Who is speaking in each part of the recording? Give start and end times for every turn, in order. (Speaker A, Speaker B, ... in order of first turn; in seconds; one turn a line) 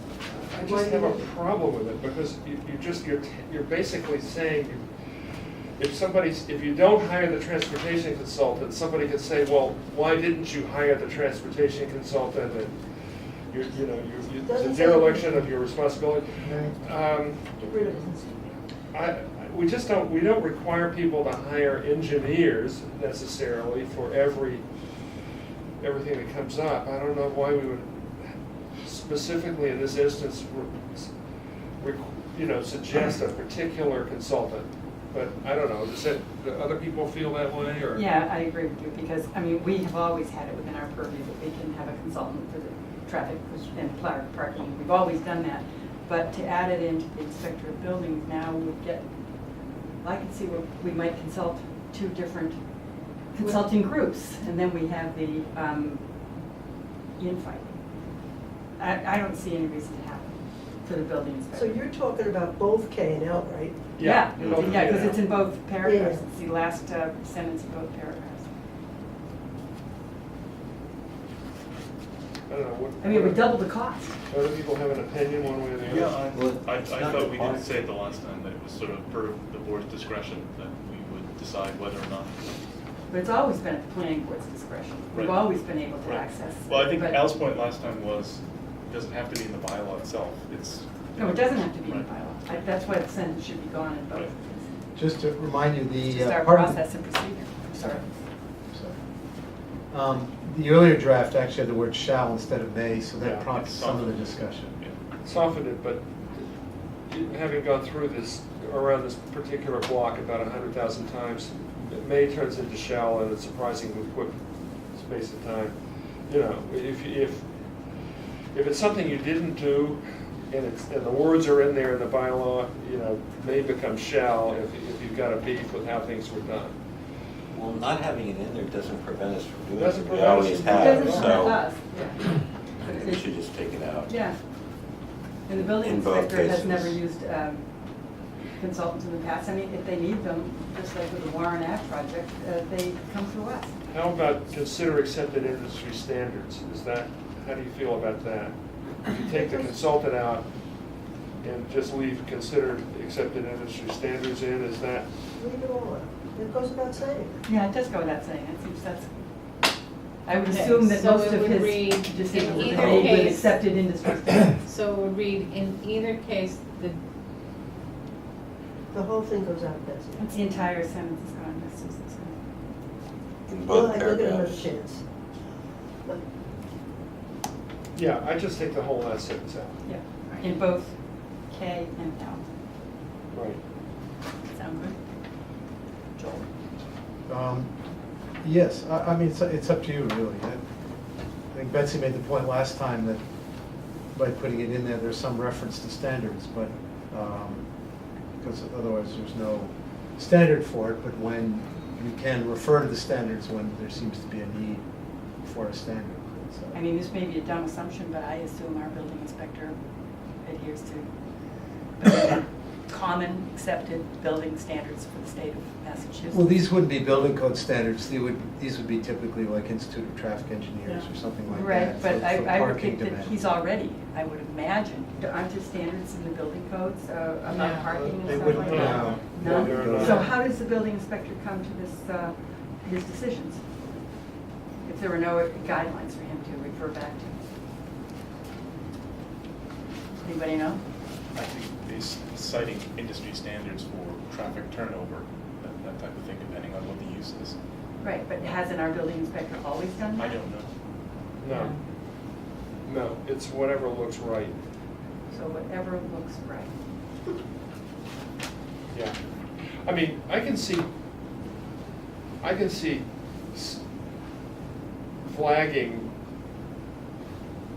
Speaker A: 0.3-4.8
Speaker B: 0.6-1.3
Speaker A: 5.8-12.8
Speaker A: 13.5-17.5
Speaker B: 14.4-15.5
Speaker B: 16.5-16.8
Speaker B: 17.6-18.6
Speaker A: 18.9-24.6
Speaker A: 25.8-31.1
Speaker A: 31.8-38.1
Speaker C: 37.9-49.1
Speaker C: 50.0-52.6
Speaker C: 53.3-56.0
Speaker C: 57.2-57.7
Speaker C: 58.8-61.8
Speaker B: 61.5-63.9
Speaker A: 64.0-65.2
Speaker C: 64.0-68.5
Speaker B: 65.8-66.2
Speaker A: 72.5-73.6
Speaker C: 73.0-74.2
Speaker A: 74.3-76.2
Speaker D: 75.8-82.3
Speaker E: 75.9-77.9
Speaker C: 83.1-87.2
Speaker D: 85.1-92.7
Speaker C: 91.2-94.7
Speaker F: 95.0-96.8
Speaker C: 96.0-98.1
Speaker F: 98.7-99.0
Speaker F: 99.9-104.8
Speaker A: 103.2-103.5
Speaker D: 103.3-105.0
Speaker A: 105.2-106.5
Speaker A: 107.1-114.4
Speaker A: 114.9-117.5
Speaker A: 118.5-126.8
Speaker E: 127.5-131.7
Speaker A: 129.7-131.4
Speaker C: 130.7-132.3
Speaker E: 132.8-134.1
Speaker C: 132.9-133.3
Speaker C: 134.0-134.4
Speaker C: 135.5-137.7
Speaker E: 135.5-137.0
Speaker C: 138.6-143.8
Speaker A: 143.9-150.5
Speaker B: 149.2-149.8
Speaker A: 151.4-155.1
Speaker B: 155.4-157.4
Speaker C: 157.5-159.1
Speaker C: 160.2-164.7
Speaker G: 160.5-163.6
Speaker G: 164.6-167.0
Speaker B: 168.9-170.3
Speaker C: 170.2-172.4
Speaker E: 173.5-174.7
Speaker B: 173.7-175.0
Speaker A: 177.9-179.8
Speaker C: 179.8-180.9
Speaker C: 181.5-182.4
Speaker A: 183.3-183.6
Speaker C: 184.5-185.0
Speaker C: 186.2-186.5
Speaker F: 187.3-187.7
Speaker F: 188.4-190.6
Speaker F: 191.5-193.2
Speaker F: 194.1-197.7
Speaker F: 198.4-204.8
Speaker F: 205.4-206.8
Speaker C: 206.7-209.8
Speaker C: 210.4-211.1
Speaker C: 212.0-216.4
Speaker F: 216.3-223.4
Speaker C: 221.5-233.6
Speaker G: 227.5-228.2
Speaker F: 227.9-230.4
Speaker A: 228.3-230.3
Speaker C: 234.8-237.4
Speaker C: 240.2-240.8
Speaker D: 241.3-247.6
Speaker C: 248.0-250.4
Speaker D: 250.2-250.7
Speaker A: 251.4-251.7
Speaker A: 252.8-254.6
Speaker C: 255.3-256.7
Speaker A: 258.9-259.2
Speaker A: 259.8-260.9
Speaker A: 262.4-263.8
Speaker A: 265.2-266.1